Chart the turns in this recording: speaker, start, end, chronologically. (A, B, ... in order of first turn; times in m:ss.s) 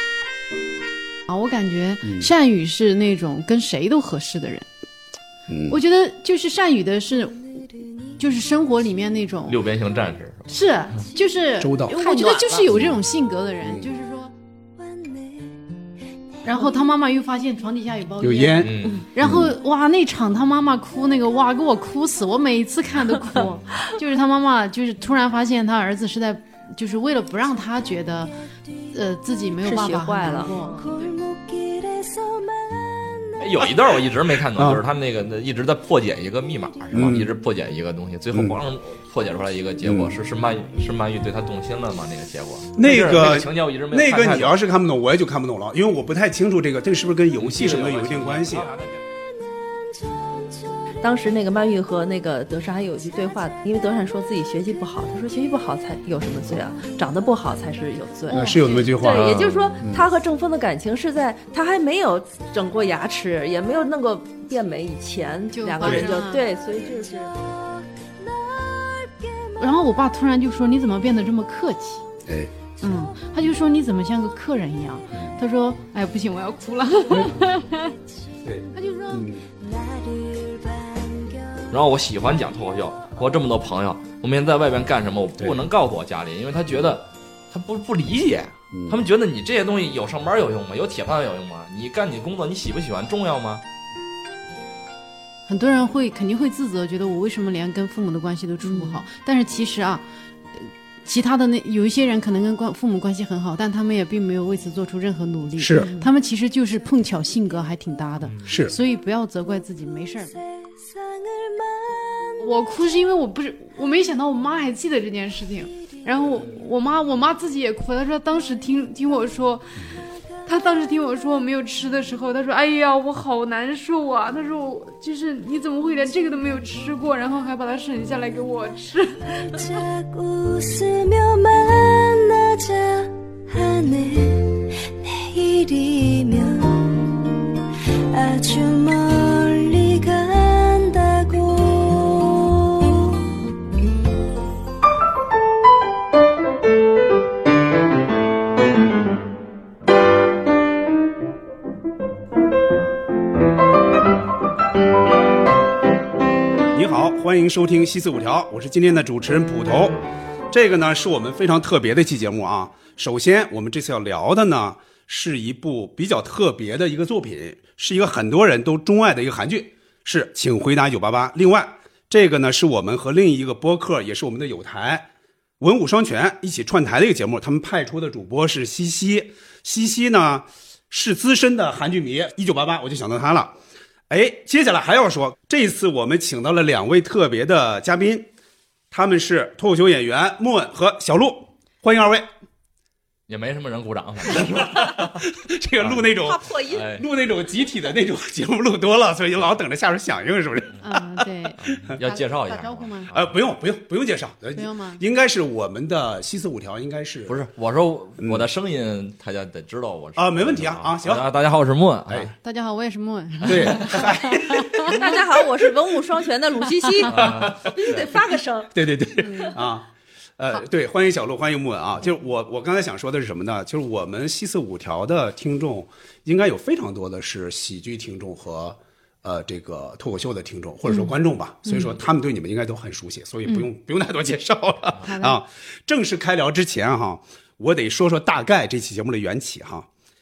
0:01.3-0:04.7 A
0:02.0-0:02.3 B
0:05.5-0:05.8 B
0:05.7-0:07.4 A
0:08.2-0:09.6 A
0:09.5-0:10.5 C
0:10.5-0:14.3 A
0:11.6-0:12.1 B
0:11.9-0:12.7 D
0:12.7-0:13.0 B
0:14.8-0:15.6 E
0:16.4-0:28.3 A
0:18.2-0:19.5 B
0:18.6-0:19.1 C
0:28.9-0:30.8 A
0:29.6-0:30.9 D
0:30.4-0:33.7 E
0:33.4-0:44.6 C
0:34.6-0:34.8 B
0:36.7-0:37.1 E
0:36.9-0:37.3 B
0:38.3-0:38.6 B
0:39.8-0:40.2 B
0:42.8-0:48.7 B
0:47.4-0:49.0 C
0:49.3-0:51.0 E
0:51.0-1:07.3 D
0:58.3-0:58.9 A
0:58.3-1:00.1 B
0:59.0-0:59.7 C
1:05.5-1:06.4 A
1:05.8-1:06.1 B
1:06.3-1:09.7 E
1:09.6-1:12.0 A
1:12.2-1:12.5 B
1:12.8-1:17.9 A
1:12.8-1:13.2 E
1:15.1-1:15.4 B
1:18.4-1:19.5 B
1:18.7-1:19.3 A
1:19.5-1:21.7 E
1:21.7-1:33.6 C
1:28.7-1:29.1 B
1:35.5-1:40.0 A
1:38.6-1:39.0 D
1:40.6-1:50.4 A
1:45.6-1:45.9 B
1:45.8-1:46.1 D
1:48.2-1:48.7 C
1:48.5-1:48.7 B
1:50.0-1:52.7 E
1:52.4-1:59.8 A
1:56.0-1:56.5 E
2:00.5-2:09.7 A
2:09.4-2:17.3 E
2:18.1-2:23.4 E
2:36.7-2:40.0 B
2:40.5-3:03.6 B
3:04.1-3:08.3 B
3:08.9-3:12.3 B
3:13.3-3:15.3 C
3:14.3-3:22.0 B
3:15.8-3:16.1 C
3:16.2-3:16.9 D
3:16.7-3:17.0 C
3:20.8-3:23.1 A
3:21.6-3:23.3 C
3:23.1-3:27.4 B
3:24.6-3:25.0 A
3:27.3-3:32.3 C
3:28.2-3:28.5 B
3:30.2-3:31.3 B
3:32.1-3:32.3 B
3:32.4-3:35.1 A
3:33.4-3:35.4 B
3:34.8-3:39.5 D
3:37.1-3:38.1 B
3:37.1-3:38.1 C
3:38.7-3:59.9 B
3:50.9-3:51.1 A
3:55.0-3:55.4 A